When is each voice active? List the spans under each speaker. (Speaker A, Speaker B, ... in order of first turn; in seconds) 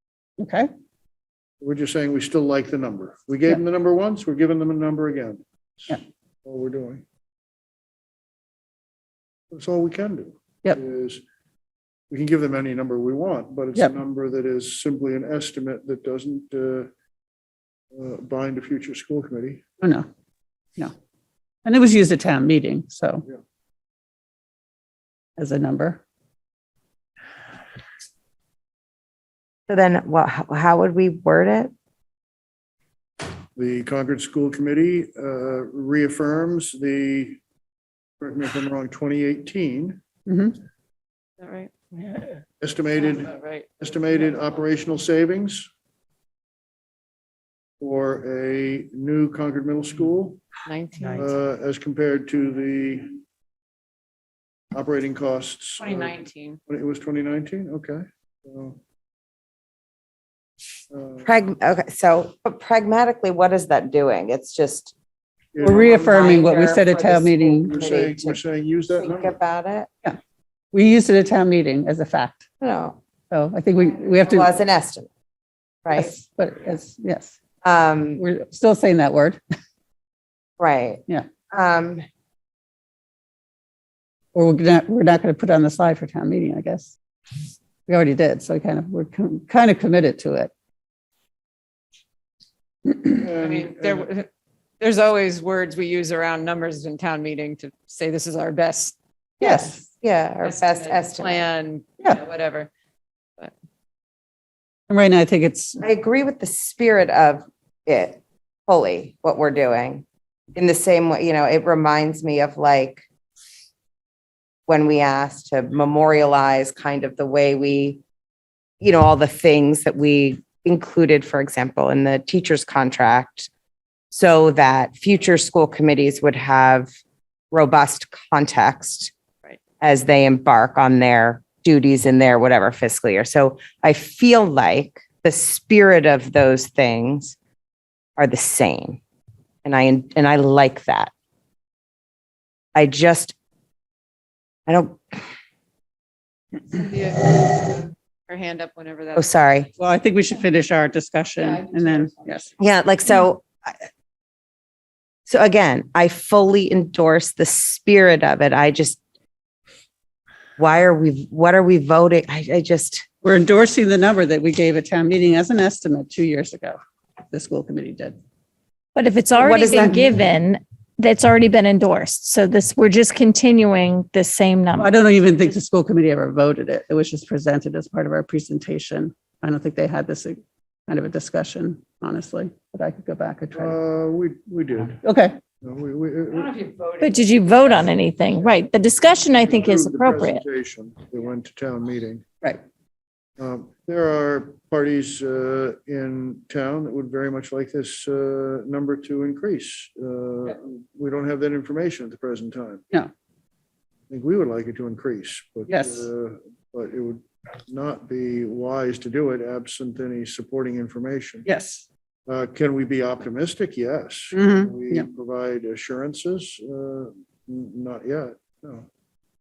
Speaker A: 0.4-0.7, 19.8-20.1, 21.6-23.2, 25.4-26.0, 40.3-40.5, 65.6-67.8, 70.7-72.5, 73.3-74.5, 75.9-77.4, 78.2-79.4, 84.3-86.9, 87.8-90.5, 99.4-99.8, 104.9-105.8, 149.8-152.5, 163.2-168.2, 169.7-169.9, 174.8-183.8, 185.0-185.4, 205.7-206.1, 211.4-211.8, 214.3-215.1
Speaker B: 1.6-7.0, 9.5-11.2, 12.1-16.9, 17.9-19.6, 33.5-37.4, 38.2-40.0, 42.6-45.7, 47.8-50.4, 51.1-53.2, 54.7-58.8, 60.9-61.3, 65.5-65.9, 67.7-69.3, 93.0-94.1, 183.5-185.0, 185.6-186.7, 189.4-192.2, 193.4-202.8, 204.1-211.4, 212.3-218.9
Speaker C: 29.7-31.7, 61.2-64.9, 65.6-68.4, 68.9-69.9, 72.6-73.0, 74.0-75.1, 75.8-76.1, 77.6-78.2, 80.6-82.0, 99.4-101.4, 105.8-113.0, 114.7-118.0, 118.8-123.5, 124.1-126.9, 127.5-129.1, 129.8-137.3, 138.2-139.0, 139.6-141.1, 142.7-143.3, 144.7-145.2, 149.2-149.7, 152.6-153.8, 155.3-159.0, 160.6-163.0, 169.4-170.2
Speaker D: 41.4-42.0, 43.0-43.7, 50.6-51.3, 55.8-56.6, 93.3-94.3, 94.8-99.0, 100.4-102.7, 146.7-149.3, 151.6-152.5, 186.6-187.0
Speaker E: 168.9-174.9, 187.0-190.4